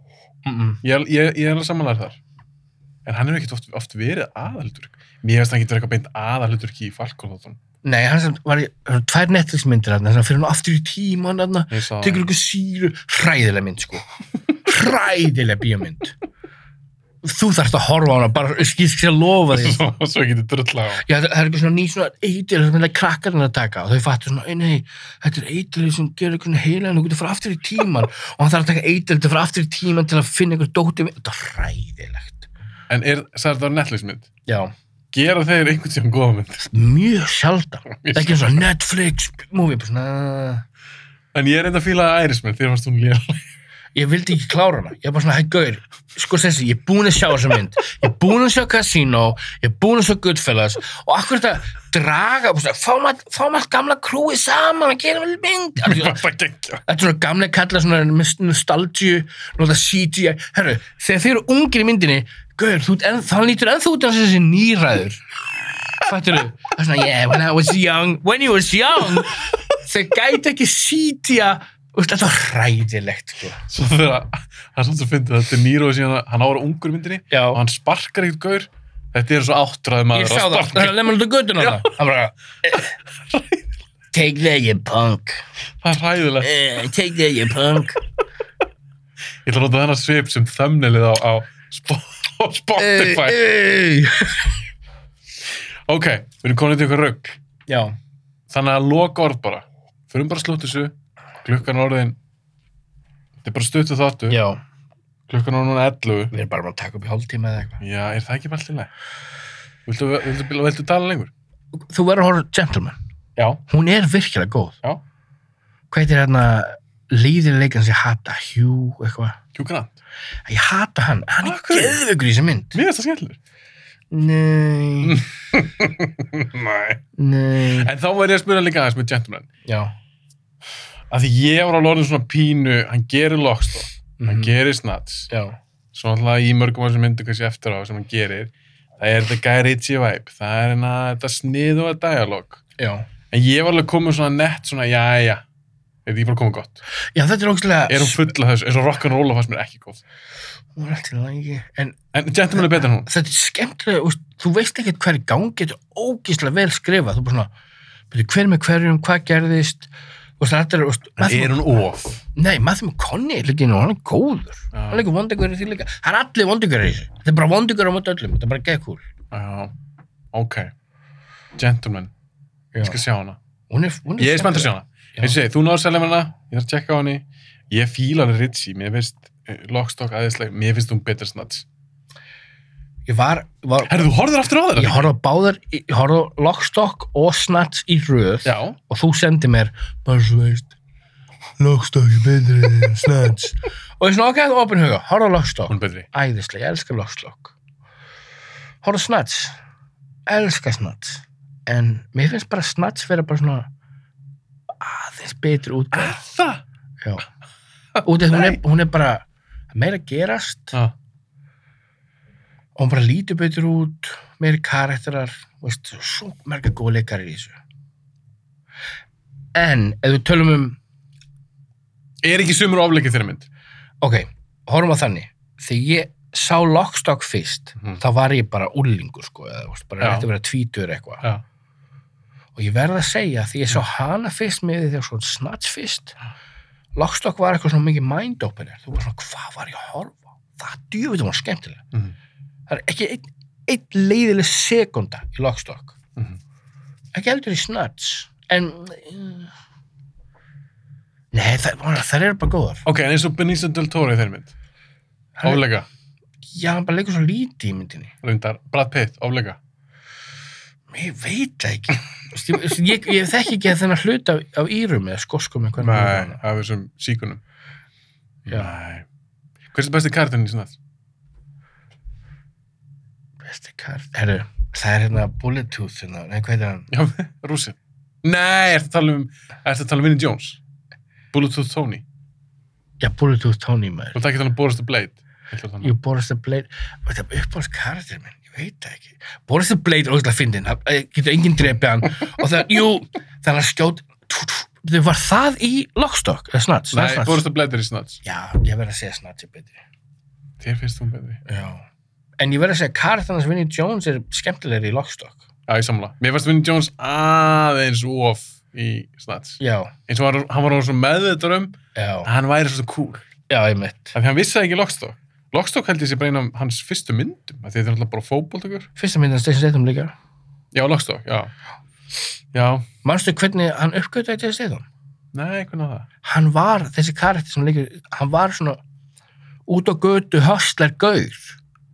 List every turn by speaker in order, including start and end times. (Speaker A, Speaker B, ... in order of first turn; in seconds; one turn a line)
Speaker A: 0.5-0.8
Speaker B: 0.8-2.2
Speaker B: 3.1-7.6
Speaker A: 7.8-14.1
Speaker B: 11.7-12.3
Speaker A: 14.7-16.1
Speaker A: 17.2-19.8
Speaker B: 19.5-21.1
Speaker A: 21.0-32.5
Speaker B: 32.9-34.3
Speaker A: 34.5-34.7
Speaker B: 35.1-36.6
Speaker A: 36.6-40.6
Speaker B: 37.9-38.6
Speaker B: 41.3-43.4
Speaker A: 44.0-56.2
Speaker B: 55.8-56.8
Speaker A: 56.9-65.2
Speaker A: 66.0-73.6
Speaker B: 73.7-81.9
Speaker A: 77.3-77.6
Speaker A: 80.1-82.9
Speaker B: 83.3-83.6
Speaker A: 84.1-85.4
Speaker B: 85.8-86.6
Speaker A: 86.4-88.0
Speaker B: 89.5-93.4
Speaker A: 92.8-94.6
Speaker B: 95.9-97.4
Speaker A: 97.7-98.0
Speaker B: 98.5-102.2
Speaker B: 103.4-104.4
Speaker A: 104.3-104.6
Speaker B: 105.3-106.3
Speaker A: 106.3-107.8
Speaker B: 107.8-108.9
Speaker B: 109.9-111.3
Speaker A: 111.7-113.0
Speaker B: 113.4-113.6
Speaker A: 113.7-114.8
Speaker A: 115.9-119.4
Speaker B: 119.5-120.0
Speaker A: 120.5-122.8
Speaker B: 121.4-122.0
Speaker B: 122.7-123.4
Speaker A: 124.1-125.2
Speaker B: 125.0-127.0
Speaker A: 127.2-127.9
Speaker B: 127.7-129.5
Speaker A: 129.7-129.9
Speaker B: 131.1-135.3
Speaker A: 134.2-134.5
Speaker A: 135.3-135.6
Speaker B: 135.9-142.6
Speaker A: 142.8-143.1
Speaker B: 143.3-145.4
Speaker B: 146.1-146.8
Speaker A: 147.1-148.2
Speaker B: 147.9-150.0
Speaker A: 150.8-152.0
Speaker B: 152.1-153.1
Speaker A: 152.5-157.5
Speaker A: 158.1-161.6
Speaker B: 161.2-162.2
Speaker A: 162.3-169.1
Speaker B: 164.7-165.1
Speaker B: 169.3-169.7
Speaker B: 170.3-170.7
Speaker B: 171.6-172.1
Speaker A: 172.7-173.0
Speaker B: 172.8-173.4
Speaker A: 173.7-175.4
Speaker B: 174.2-181.7
Speaker A: 183.1-184.1
Speaker B: 183.9-185.1
Speaker A: 184.8-190.7
Speaker B: 188.4-188.8
Speaker A: 191.6-197.6
Speaker B: 195.7-196.1
Speaker A: 198.8-199.6
Speaker A: 200.3-203.7
Speaker A: 204.8-206.2
Speaker B: 205.9-206.6
Speaker B: 208.0-208.6
Speaker A: 208.0-210.8
Speaker A: 212.8-217.6
Speaker A: 219.5-220.8
Speaker B: 222.2-223.5
Speaker A: 224.0-231.2
Speaker B: 230.0-230.3
Speaker A: 232.6-236.2
Speaker A: 236.9-241.8
Speaker A: 242.7-245.9
Speaker A: 247.1-249.5
Speaker A: 251.3-252.8
Speaker B: 252.8-254.5
Speaker A: 255.4-255.7
Speaker B: 255.4-255.9
Speaker A: 256.5-258.1
Speaker B: 258.2-259.6
Speaker A: 260.9-266.4
Speaker B: 265.8-267.4
Speaker A: 268.5-268.7
Speaker B: 268.5-269.1
Speaker B: 269.7-270.8
Speaker A: 273.4-276.9
Speaker B: 276.9-280.6
Speaker B: 281.3-282.1
Speaker A: 283.0-284.2
Speaker B: 284.1-285.9
Speaker A: 285.8-297.4
Speaker B: 296.9-298.2
Speaker A: 298.2-299.8
Speaker B: 300.6-301.4
Speaker A: 301.5-301.9
Speaker A: 302.4-305.4
Speaker B: 305.7-313.3
Speaker A: 309.6-309.9
Speaker A: 311.9-312.3
Speaker A: 313.5-314.1
Speaker B: 314.1-318.9
Speaker A: 319.0-320.1
Speaker B: 320.7-321.5
Speaker B: 322.5-322.9
Speaker A: 323.0-324.9
Speaker B: 325.3-326.1
Speaker A: 326.2-328.8
Speaker A: 329.7-331.6